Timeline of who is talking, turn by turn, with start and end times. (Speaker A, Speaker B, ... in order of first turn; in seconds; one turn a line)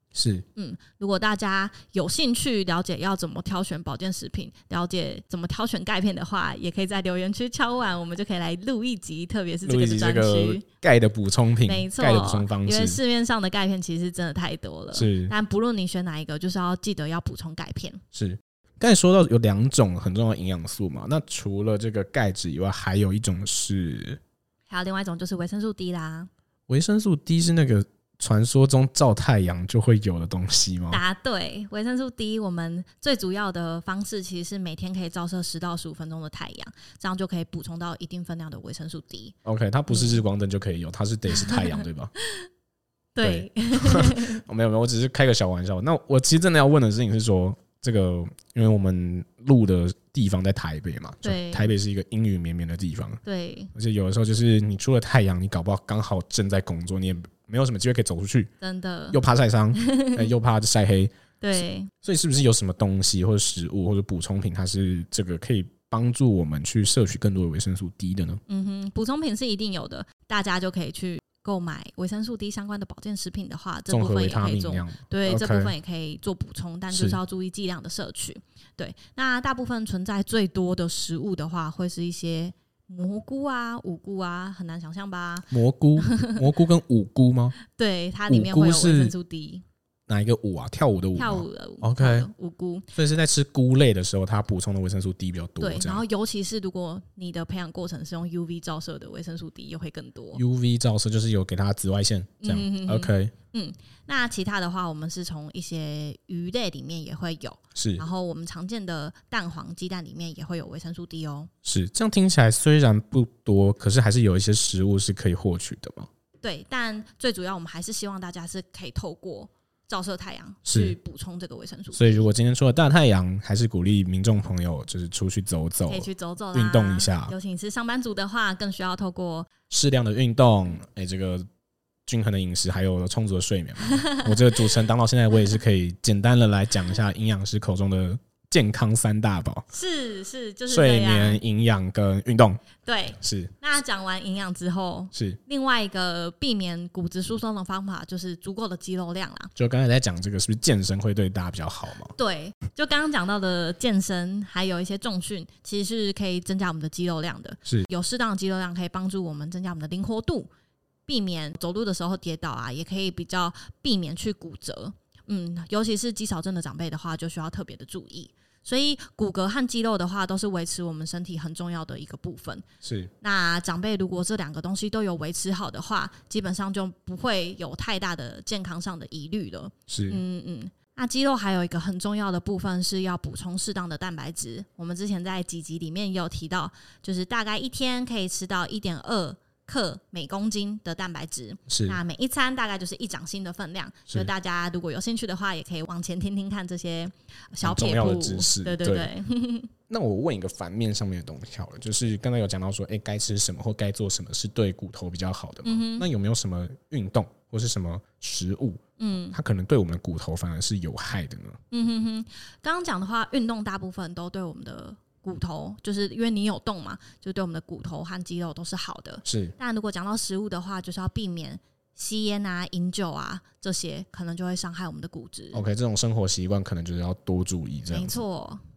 Speaker A: 0.1-0.4
Speaker B: 0.6-10.6
Speaker A: 9.6-13.0
Speaker B: 11.7-18.0
Speaker A: 14.9-15.3
Speaker A: 18.1-24.2
Speaker B: 24.7-26.3
Speaker A: 26.7-31.0
Speaker B: 30.9-39.3
Speaker A: 39.5-42.1
Speaker B: 39.9-40.2
Speaker B: 41.3-42.5
Speaker B: 43.1-44.4
Speaker A: 43.2-53.2
Speaker B: 51.2-51.7
Speaker B: 53.2-53.7
Speaker A: 53.7-58.5
Speaker B: 58.6-59.2
Speaker A: 59.1-68.4
Speaker B: 59.7-60.3
Speaker B: 61.4-61.9
Speaker B: 68.5-86.4
Speaker A: 73.9-75.7
Speaker A: 76.9-77.2
Speaker A: 85.5-87.5
Speaker B: 87.7-89.6
Speaker A: 88.3-89.1
Speaker A: 90.1-92.3
Speaker B: 91.1-92.9
Speaker A: 93.0-96.0
Speaker B: 95.6-100.4
Speaker A: 100.3-103.3
Speaker B: 102.4-111.5
Speaker A: 107.7-108.0
Speaker A: 111.6-116.1
Speaker B: 116.4-122.2
Speaker A: 120.7-121.0
Speaker A: 121.9-127.3
Speaker B: 125.9-129.5
Speaker A: 129.7-131.4
Speaker A: 132.1-139.6
Speaker B: 133.8-134.7
Speaker B: 139.7-141.4
Speaker A: 140.7-142.7
Speaker B: 142.8-149.5
Speaker A: 143.2-143.5
Speaker A: 149.6-152.1
Speaker B: 152.2-160.5
Speaker B: 161.1-172.6
Speaker A: 172.8-173.1
Speaker B: 173.2-199.7
Speaker A: 179.9-180.2
Speaker A: 191.7-192.0
Speaker A: 197.6-199.1
Speaker A: 199.9-211.6
Speaker B: 205.6-206.1
Speaker B: 209.0-209.3
Speaker B: 211.7-225.6
Speaker A: 219.2-219.5
Speaker A: 225.5-228.2
Speaker B: 227.9-228.6